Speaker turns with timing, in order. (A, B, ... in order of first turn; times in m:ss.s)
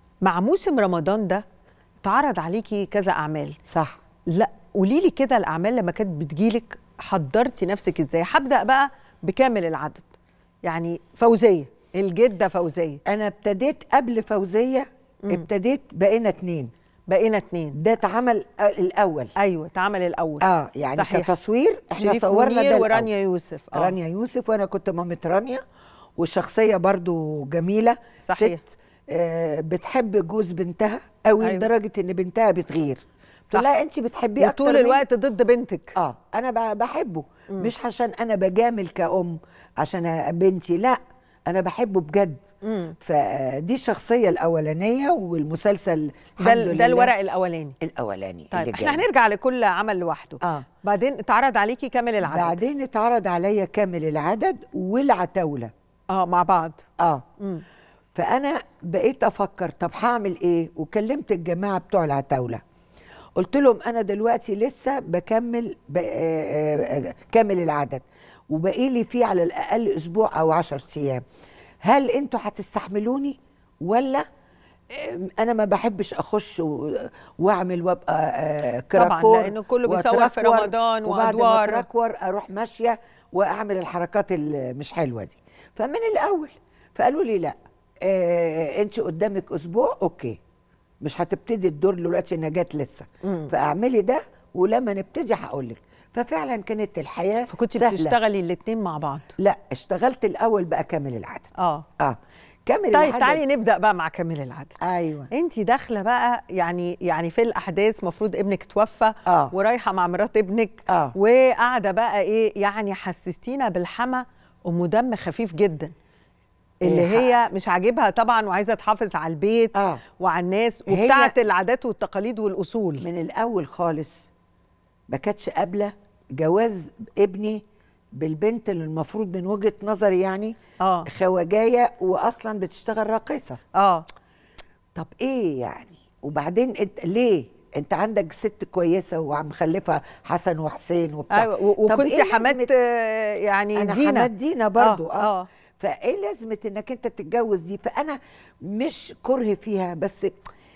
0:00.2-0:01.4 A
0:02.0-0:03.6 A
0:03.7-0:04.0 B
0:04.3-0:10.1 A
0:10.6-0:13.0 A
0:13.0-0:16.7 B
0:17.1-0:17.8 A
0:17.8-0:19.3 B
0:19.4-0:21.3 A
0:20.4-0:23.1 B
0:22.0-0:23.9 A
0:23.7-0:25.6 B
0:26.2-0:35.0 B
0:28.2-0:28.6 A
0:31.4-0:31.7 A
0:34.4-0:35.9 A
0:35.9-0:42.4 B
0:42.6-0:42.9 A
0:43.0-0:47.1 B
0:46.4-0:47.8 A
0:47.8-0:49.0 B
0:48.5-0:52.6 A
0:50.4-0:50.6 B
0:52.2-0:55.7 B
0:56.1-0:56.8 A
0:58.1-1:02.6 B
1:03.4-1:11.2 B
1:11.8-1:14.2 B
1:14.9-1:30.4 B
1:18.9-1:21.8 A
1:31.0-1:38.2 B
1:33.2-1:33.5 A
1:37.5-1:39.3 A
1:39.4-1:43.4 B
1:41.6-1:41.8 A
1:42.9-1:44.7 A
1:44.8-1:45.3 B
1:45.3-1:55.9 A
1:49.2-1:49.5 B
1:50.9-1:51.1 B
1:56.8-2:03.0 A
1:56.8-1:57.4 B
1:59.7-2:00.0 B
2:00.9-2:01.3 B
2:03.0-2:04.2 B
2:05.1-2:07.6 B
2:08.2-2:10.5 B
2:10.8-2:11.1 A
2:11.0-2:13.6 B
2:13.7-2:14.0 A
2:14.9-2:22.7 B
2:21.3-2:25.5 A
2:23.8-2:30.3 B